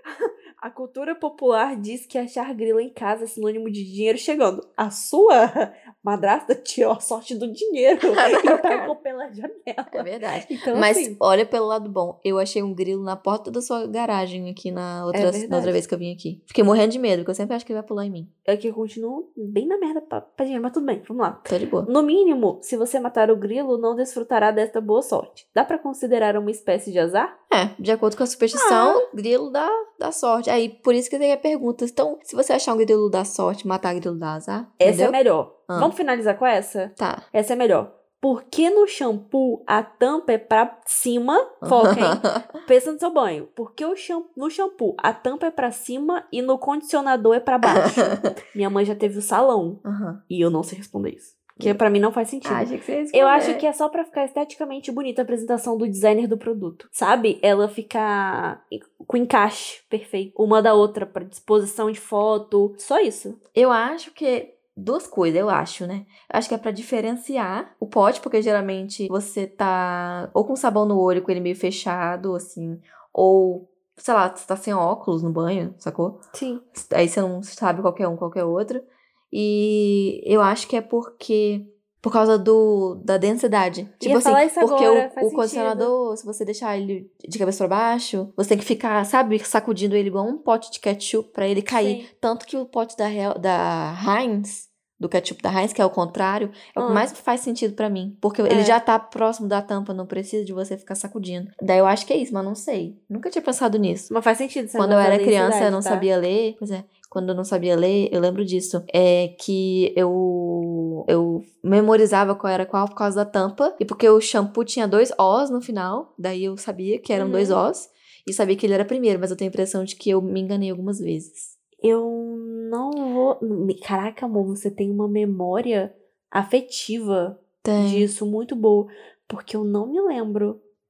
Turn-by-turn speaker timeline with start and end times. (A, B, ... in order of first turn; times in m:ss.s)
0:00.2-0:11.2 A
0:08.2-0:08.9 B
0:09.9-0:18.3 B
0:15.1-0:15.8 A
0:18.4-0:27.3 A
0:21.5-0:21.9 B
0:27.5-0:35.2 B
0:28.5-0:29.0 A
0:34.8-1:03.4 A
0:35.7-0:35.9 B
0:37.0-0:37.2 B
0:41.6-0:42.5 B
0:47.7-0:48.4 B
0:49.8-0:50.2 B
0:52.4-0:53.6 B
1:03.5-1:16.2 B
1:16.3-1:16.6 A
1:16.7-1:44.1 B
1:24.0-1:25.9 A
1:31.7-1:32.1 A
1:36.8-1:37.1 A
1:38.4-1:38.8 A
1:44.1-1:46.1 A
1:44.8-2:01.5 B
1:57.1-1:57.6 A
2:01.8-2:10.6 A
2:07.6-2:08.1 B